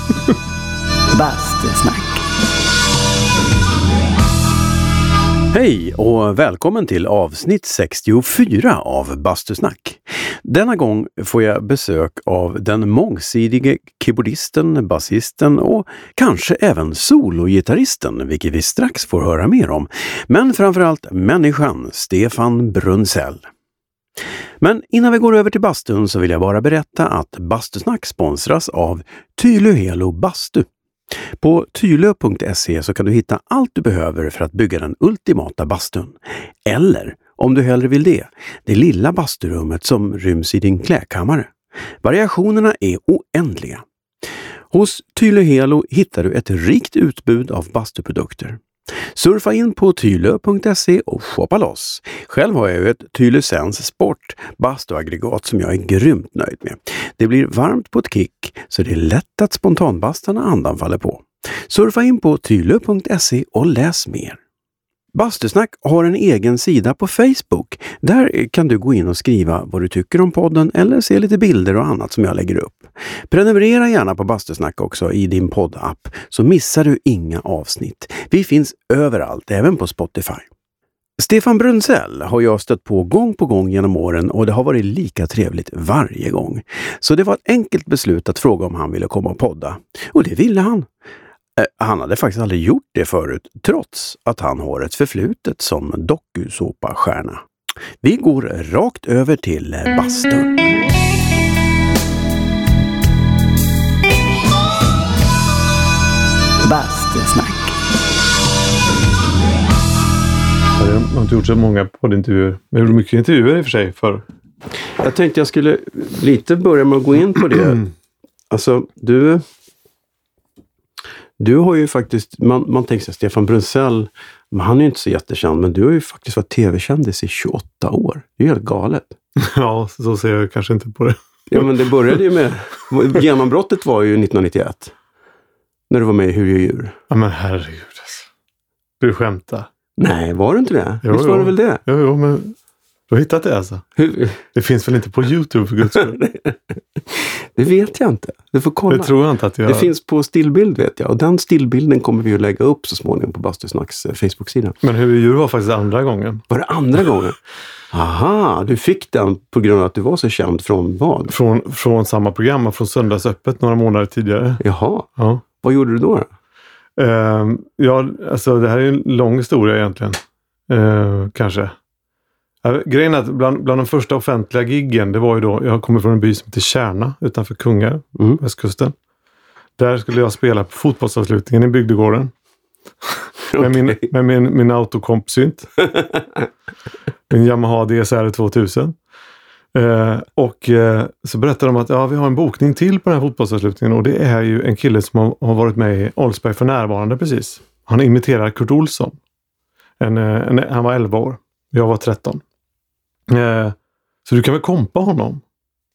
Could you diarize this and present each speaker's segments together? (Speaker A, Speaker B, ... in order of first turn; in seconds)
Speaker A: 1.1-2.2, 106.6-107.7
Speaker B: 5.5-23.5, 24.6-30.7, 31.4-41.5, 42.0-43.8, 44.7-48.6, 49.1-64.4, 65.1-80.5, 81.2-90.9, 91.5-97.4, 98.0-100.6, 115.0-117.8, 118.5-119.4, 121.4-129.1, 131.5-134.9, 135.9-136.9, 140.0-141.8, 144.0-144.4, 146.0-154.8, 156.5-157.4, 157.9-161.3, 164.6-165.1, 165.6-166.3, 178.2-178.4, 183.5-184.0
Speaker C: 110.8-114.2, 129.4-131.2, 137.1-138.3, 139.0-139.7, 141.0-142.5, 143.1-143.8, 144.5-146.2, 148.9-149.9, 154.8-156.4, 161.3-164.6, 165.2-165.4, 167.0-171.7, 172.6-178.9, 179.8-182.3, 183.5-185.7, 187.3-188.9, 189.7-199.2, 200.0-202.4, 203.3-203.7, 204.2-205.4